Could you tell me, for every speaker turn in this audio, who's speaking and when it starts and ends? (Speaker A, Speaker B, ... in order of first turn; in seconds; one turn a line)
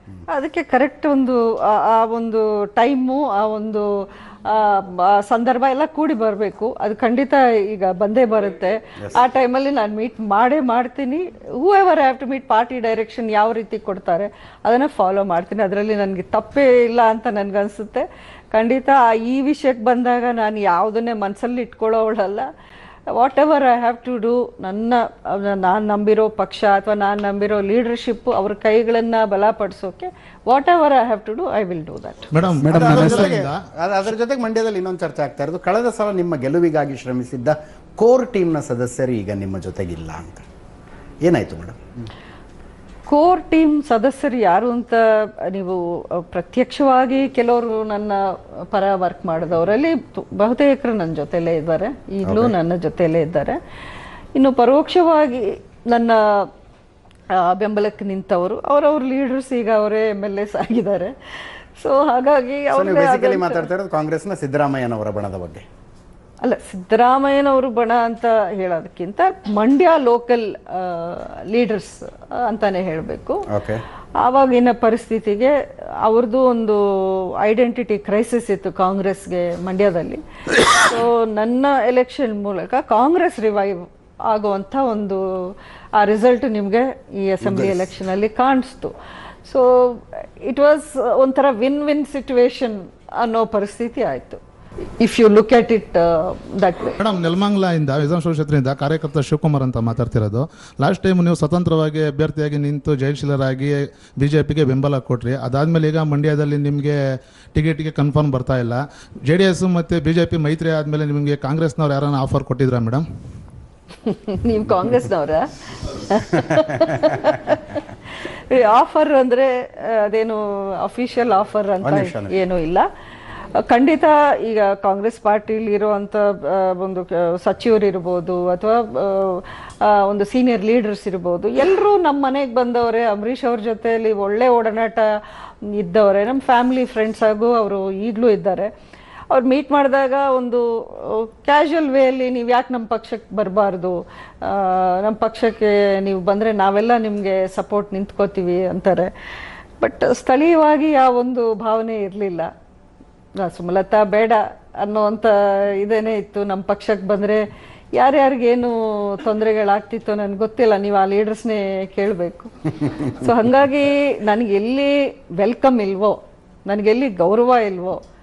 Speaker A: 0.3-3.9
Speaker A: 4.4-22.5
Speaker A: 23.1-33.1
Speaker B: 32.3-33.6
Speaker C: 32.6-40.4
Speaker C: 41.2-41.8
Speaker A: 43.1-53.6
Speaker C: 52.2-52.5
Speaker A: 54.4-56.5
Speaker A: 57.3-63.7
Speaker C: 62.7-65.6
Speaker A: 66.4-73.4
Speaker C: 73.5-73.8
Speaker A: 74.2-88.9
Speaker C: 87.4-87.7
Speaker A: 89.5-94.4
Speaker A: 95.0-97.0
Speaker B: 97.0-107.0
Speaker B: 107.5-113.0
Speaker A: 114.0-117.8
Speaker A: 118.5-122.8
Speaker C: 121.8-122.4
Speaker A: 123.6-135.1
Speaker A: 135.8-138.7
Speaker A: 139.3-149.1
Speaker A: 149.8-152.5
Speaker A: 153.4-157.4
Speaker A: 157.9-168.0